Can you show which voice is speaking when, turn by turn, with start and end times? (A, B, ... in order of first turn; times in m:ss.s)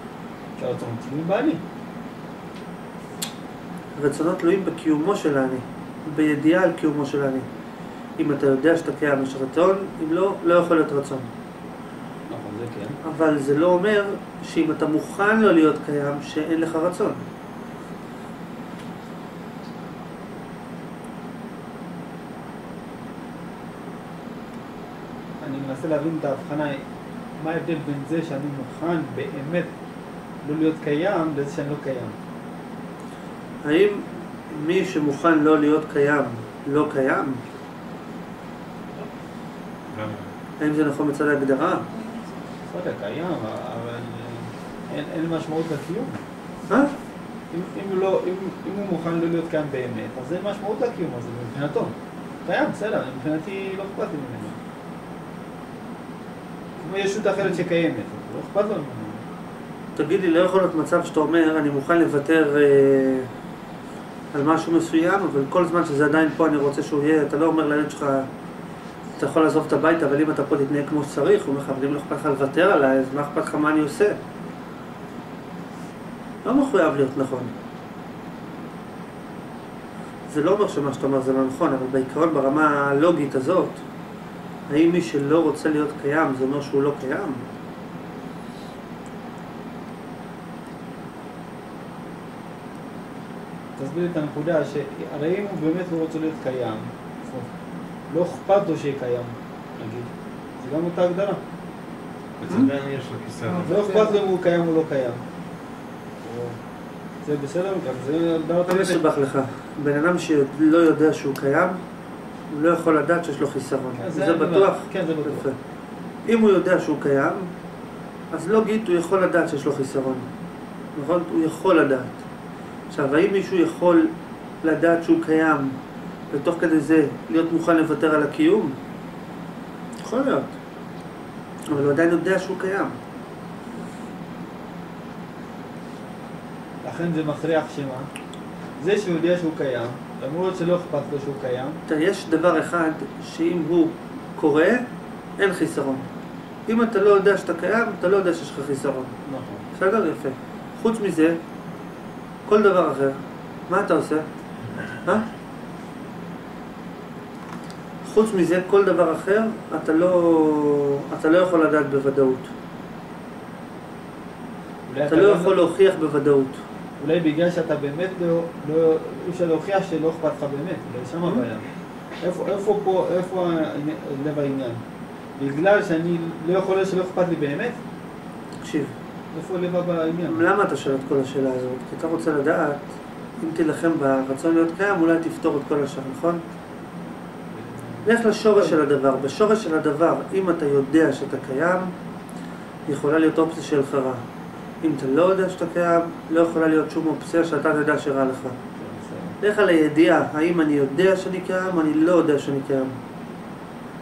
0:00.6-0:01.6 A
0:04.0-0:07.5 B
0:08.2-0:11.3 B
0:12.3-0:13.0 A
0:13.0-0:17.2 B
0:25.4-0:26.8 A
0:27.4-0:29.7 A
0:30.4-0:32.2 A
0:33.6-0:37.4 B
0:39.9-0:40.3 C
0:40.6-0:41.9 B
0:42.7-0:46.2 A
0:47.5-0:54.6 A
0:56.8-0:59.2 A
1:00.0-1:03.3 B
1:04.3-1:08.3 B
1:09.2-1:14.2 B
1:16.4-1:17.5 B
1:20.3-1:23.8 B
1:24.7-1:27.4 B
1:33.8-1:37.5 A
1:38.1-1:41.4 A
1:42.4-1:43.8 C
1:43.5-1:45.2 A
1:46.2-1:46.6 A
1:47.2-1:49.0 A
1:48.7-1:51.8 B
1:52.5-1:55.6 B
1:54.0-1:55.5 A
1:56.3-1:57.5 B
1:58.3-2:00.3 B
2:01.0-2:02.2 B
2:02.9-2:04.1 B
2:04.6-2:05.7 B
2:06.3-2:08.8 B
2:10.0-2:10.5 B
2:11.7-2:13.0 B
2:16.8-2:18.1 A
2:18.8-2:21.8 A
2:21.9-2:24.8 B
2:25.4-2:26.1 B
2:26.7-2:29.1 B
2:29.3-2:29.6 A
2:29.8-2:31.4 B
2:32.5-2:33.2 B
2:33.7-2:34.2 B
2:38.0-2:42.5 B
2:44.9-2:45.7 A
2:45.1-2:46.6 B
2:47.0-2:51.7 A
2:52.2-2:54.8 A
2:55.4-2:57.8 A
2:58.6-2:58.9 B
2:59.3-3:00.4 A
3:00.3-3:02.9 B
3:03.4-3:06.4 B
3:07.5-3:08.8 A
3:08.0-3:11.9 B
3:12.9-3:14.2 B
3:14.8-3:18.6 B
3:18.8-3:19.4 A
3:19.4-3:23.0 B